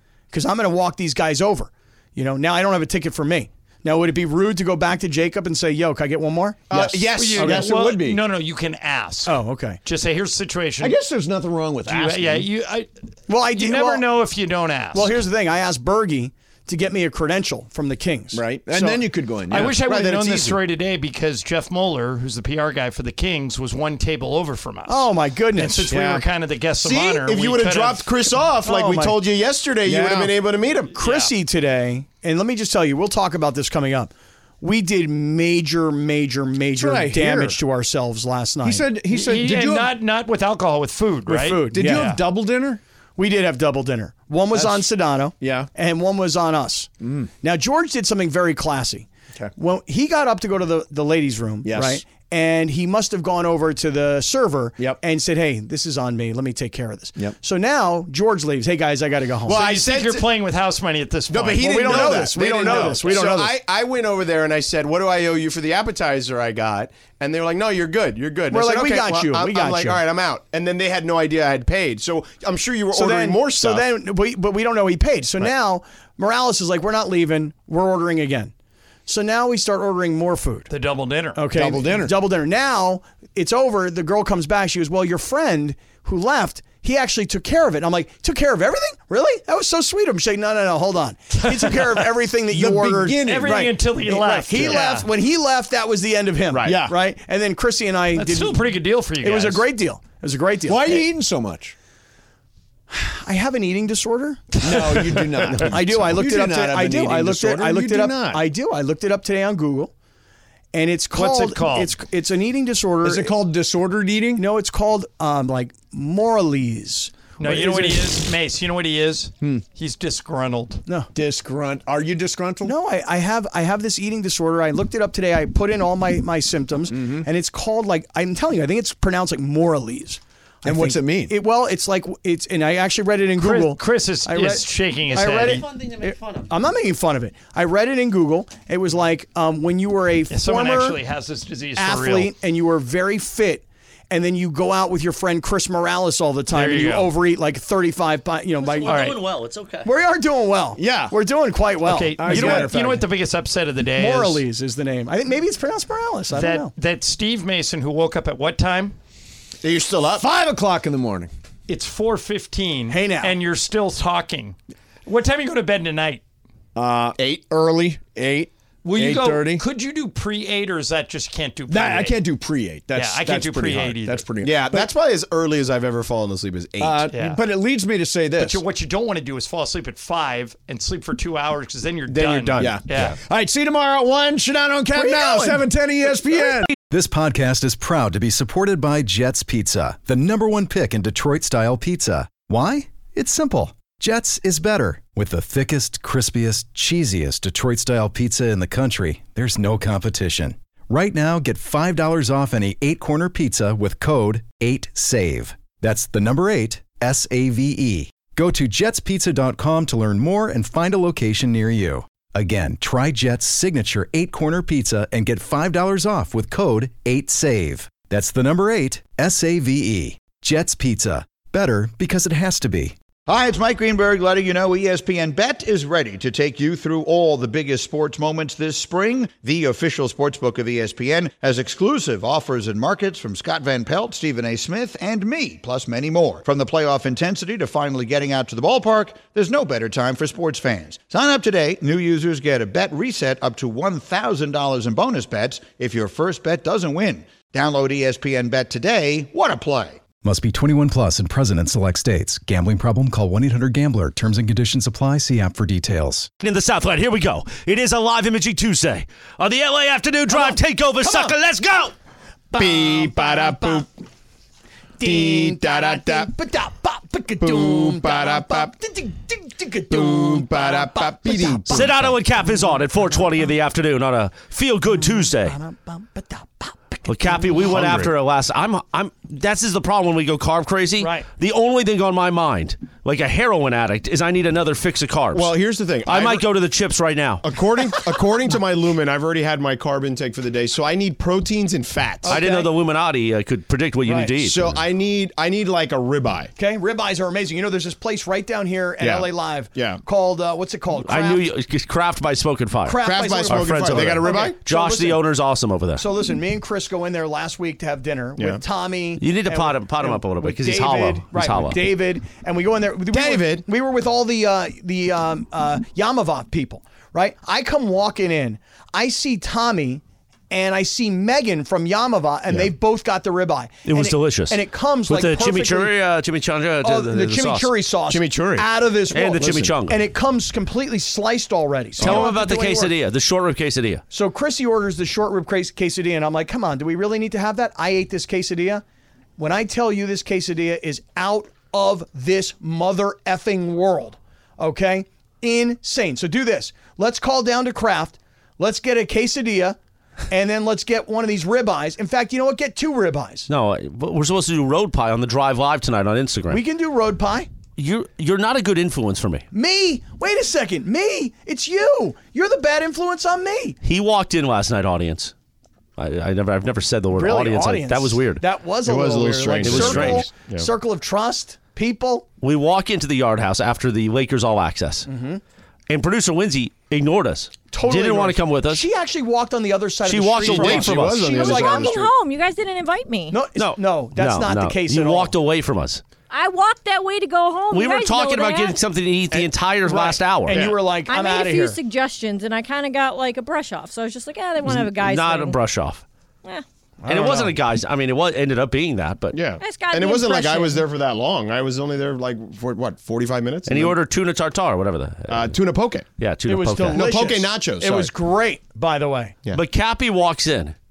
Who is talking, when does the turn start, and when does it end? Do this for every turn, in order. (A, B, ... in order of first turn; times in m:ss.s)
0:00.3-0:07.6 A
0:06.7-0:07.6 B
0:06.7-0:08.2 C
0:07.2-0:11.0 D
0:09.2-0:09.8 A
0:10.8-0:12.5 C
0:11.9-0:12.9 D
0:13.3-0:14.1 A
0:13.5-0:15.1 D
0:14.9-0:19.0 A
0:18.3-0:19.8 C
0:19.5-0:28.1 D
0:19.6-0:20.6 B
0:24.9-0:25.9 A
0:25.9-0:26.2 C
0:26.8-0:30.9 B
0:28.6-0:29.2 A
0:29.8-0:30.3 C
0:30.9-0:31.3 D
0:31.0-0:38.8 A
0:36.7-0:37.6 C
0:38.6-0:39.9 C
0:39.1-0:42.2 D
0:41.3-0:42.2 A
0:41.7-0:42.8 C
0:43.2-0:46.9 A
0:44.5-0:45.7 C
0:47.0-0:47.3 C
0:47.4-0:59.6 A
0:51.6-0:52.0 C
0:59.4-1:00.3 B
0:59.5-1:03.0 D
1:01.3-1:13.8 B
1:01.6-1:03.5 A
1:08.5-1:10.0 A
1:12.9-1:18.5 A
1:19.1-1:20.7 A
1:20.7-1:21.4 D
1:21.3-1:38.6 A
1:21.5-1:22.1 C
1:31.5-1:31.9 D
1:32.5-1:33.7 C
1:33.2-1:35.1 D
1:36.5-1:36.8 B
1:36.6-1:36.9 C
1:38.1-1:39.7 D
1:39.2-1:41.0 A
1:40.6-1:41.7 C
1:42.9-1:44.6 A
1:44.6-1:48.4 C
1:44.6-1:45.6 D
1:45.6-1:49.9 A
1:50.7-1:53.3 A
1:51.1-1:51.9 D
1:53.0-1:54.4 C
1:54.3-1:58.2 A
1:57.4-2:00.8 D
2:01.1-2:02.7 C
2:02.6-2:21.0 A
2:06.9-2:07.3 C
2:10.6-2:11.3 C
2:13.4-2:15.6 D
2:15.2-2:16.5 E
2:20.3-2:22.3 D
2:21.8-2:29.0 A
2:26.5-2:27.1 D
2:28.6-2:29.9 E
2:28.8-2:29.2 D
2:29.8-2:33.0 A
2:30.8-2:31.1 C
2:31.8-2:34.4 D
2:32.2-2:33.0 C
2:34.0-2:36.7 A
2:36.3-2:38.9 D
2:39.6-2:40.3 B
2:40.2-2:41.3 C
2:41.7-2:46.2 D
2:42.9-2:43.4 A
2:46.8-2:49.6 C
2:47.2-2:47.5 B
2:48.8-2:52.2 D
2:51.7-2:54.9 C
2:52.9-2:54.2 D
2:54.4-2:57.1 B
2:56.8-2:58.6 C
2:57.1-2:57.4 D
2:58.4-3:03.2 D
3:02.1-3:03.0 B
3:02.6-3:06.7 C
3:06.7-3:42.9 F
3:43.3-4:10.0 G
4:10.2-4:16.3 F
4:16.4-4:21.9 E
4:20.3-4:21.4 A
4:22.5-4:23.9 A
4:22.6-4:23.9 B
4:25.0-4:33.5 A
4:25.0-4:26.3 B
4:27.4-4:28.7 B
4:29.9-4:32.2 B
4:31.7-4:35.6 E
4:34.8-4:37.9 A
4:37.0-4:45.5 E
4:37.7-4:38.1 B
4:41.0-4:41.3 A
4:45.3-4:46.5 B
4:46.0-4:47.4 E
4:47.4-4:52.4 B
4:52.2-4:52.7 A
4:52.3-4:54.8 E
4:54.0-4:54.3 A
4:54.4-4:56.5 B
4:56.6-5:01.5 A
4:59.0-5:00.0 B
5:01.0-5:06.0 E
5:02.8-5:05.2 A
5:03.0-5:04.6 B
5:05.9-5:25.9 A
5:09.2-5:11.8 E
5:13.1-5:13.6 B
5:23.8-5:27.7 E
5:26.8-5:32.9 A
5:28.1-5:28.7 B
5:29.1-5:30.0 E
5:29.4-5:29.7 B
5:32.0-5:32.3 B
5:32.0-5:34.0 E
5:34.1-5:38.8 A
5:39.4-5:49.8 A
5:50.3-5:53.5 A
5:53.5-5:56.6 E
5:56.5-5:57.5 A
5:57.8-5:59.4 E
5:59.5-6:03.8 A
6:03.8-6:05.3 E
6:06.0-6:08.4 E
6:07.1-6:12.2 A
6:08.8-6:10.7 B
6:09.6-6:10.3 E
6:12.4-6:15.1 E
6:15.0-6:15.4 A
6:15.9-6:18.8 E
6:17.7-6:22.0 A
6:20.0-6:21.3 E
6:20.4-6:22.1 B
6:21.2-6:23.4 H
6:23.3-6:25.3 A
6:23.5-6:26.0 E
6:26.3-6:28.8 H
6:27.7-6:30.7 E
6:29.4-6:31.8 A
6:30.5-6:30.8 B
6:31.0-6:35.6 H
6:34.6-6:36.0 E
6:37.0-6:37.6 A
6:37.1-6:39.4 E
6:39.3-6:44.0 B
6:39.6-6:40.8 H
6:43.7-6:45.5 E
6:45.3-6:46.1 B
6:46.2-6:47.1 E
6:46.4-6:49.4 A
6:46.9-6:48.1 B
6:49.5-6:50.7 E